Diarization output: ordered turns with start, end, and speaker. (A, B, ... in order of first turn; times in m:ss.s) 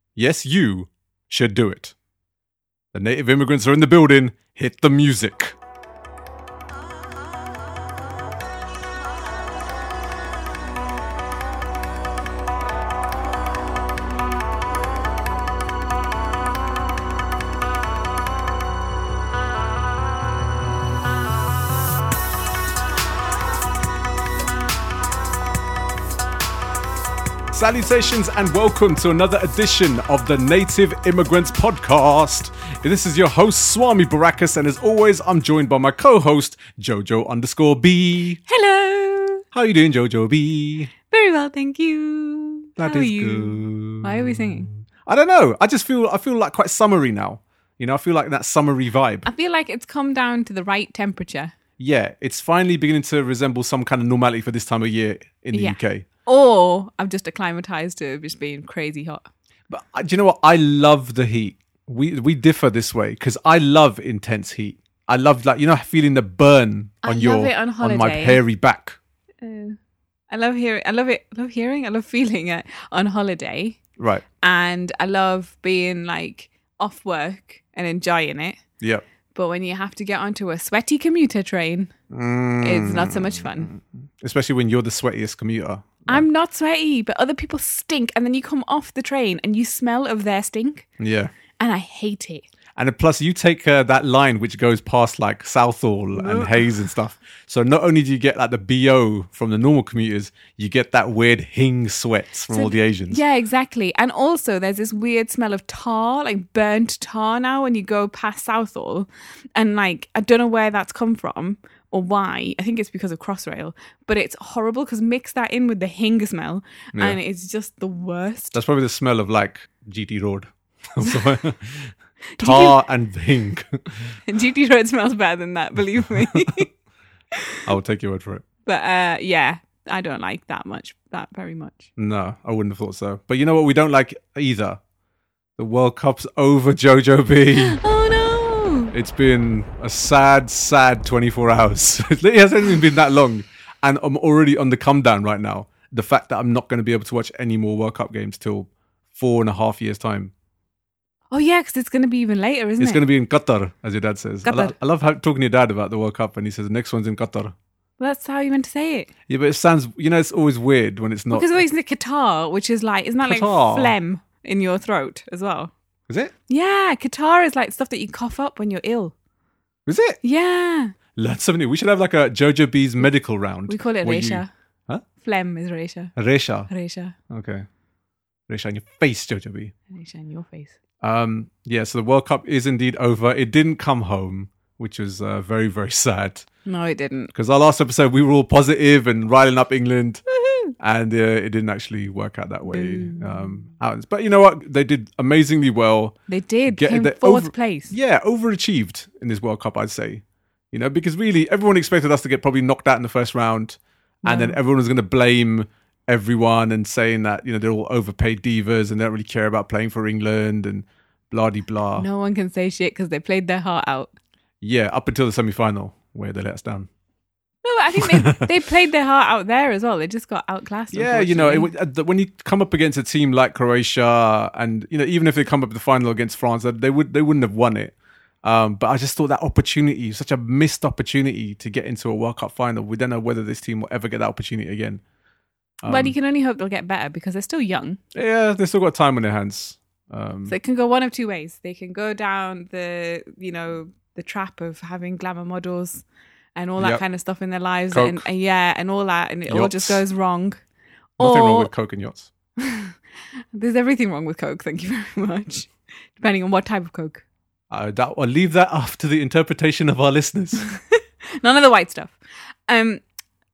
0:00.2-0:02.0 A
0:02.9-0:05.6 A
0:27.5-0:38.4 A
0:38.5-0:39.4 B
0:39.5-0:40.9 A
0:41.1-0:44.7 B
0:42.8-0:49.3 A
0:49.3-0:51.5 B
0:51.8-0:56.1 A
0:55.5-0:59.3 B
0:59.7-1:09.0 A
1:07.0-1:08.4 B
1:09.4-1:09.8 B
1:10.3-1:13.8 B
1:14.0-1:14.2 A
1:14.4-1:18.6 B
1:18.8-1:19.0 A
1:19.3-1:21.9 B
1:22.1-1:26.3 A
1:22.6-1:23.7 B
1:26.1-1:30.9 B
1:31.0-1:31.3 A
1:31.6-1:32.5 B
1:32.8-1:43.2 A
1:36.2-1:36.8 B
1:42.5-1:58.6 B
1:58.5-2:04.2 A
2:01.0-2:01.3 B
2:02.4-2:02.8 B
2:04.3-2:06.7 B
2:07.4-2:07.6 B
2:07.7-2:08.4 A
2:08.7-2:11.9 B
2:12.0-2:14.8 A
2:15.6-2:17.8 A
2:17.6-2:18.9 B
2:18.9-2:30.3 A
2:31.3-2:33.0 B
2:32.8-2:37.5 A
2:34.4-2:34.7 B
2:38.0-2:39.1 B
2:39.3-2:41.6 A
2:41.3-2:45.7 B
2:43.2-2:43.9 A
2:46.1-2:46.3 A
2:46.5-2:49.1 B
2:49.9-2:50.2 A
2:50.2-2:51.0 B
2:51.2-2:55.0 A
2:53.7-2:54.5 B
2:55.2-2:56.1 B
2:56.2-2:56.7 A
2:56.7-2:57.2 B
2:57.3-2:57.7 A
2:58.5-2:59.7 A
2:59.9-3:00.8 B
3:01.0-3:06.5 A
3:06.7-3:07.3 B
3:07.3-3:10.2 A
3:10.3-3:10.7 B
3:10.8-3:16.2 A
3:12.7-3:13.6 B
3:16.3-3:18.0 B
3:16.7-3:32.1 A
3:24.2-3:24.6 B
3:32.0-3:34.1 B
3:34.6-3:36.9 A
3:37.6-3:41.7 B
3:38.0-3:38.5 A
3:40.9-3:55.0 A
3:55.8-3:56.2 A
3:55.9-3:58.0 B
3:58.2-4:00.6 A
4:00.5-4:06.0 B
4:06.6-4:10.6 B
4:06.8-4:07.0 A
4:07.9-4:08.2 A
4:09.5-4:10.0 A
4:11.2-4:11.7 B
4:11.2-4:12.3 A
4:12.6-4:13.0 B
4:13.5-4:17.2 B
4:17.7-4:20.7 A
4:20.6-4:22.2 B
4:22.7-4:23.0 B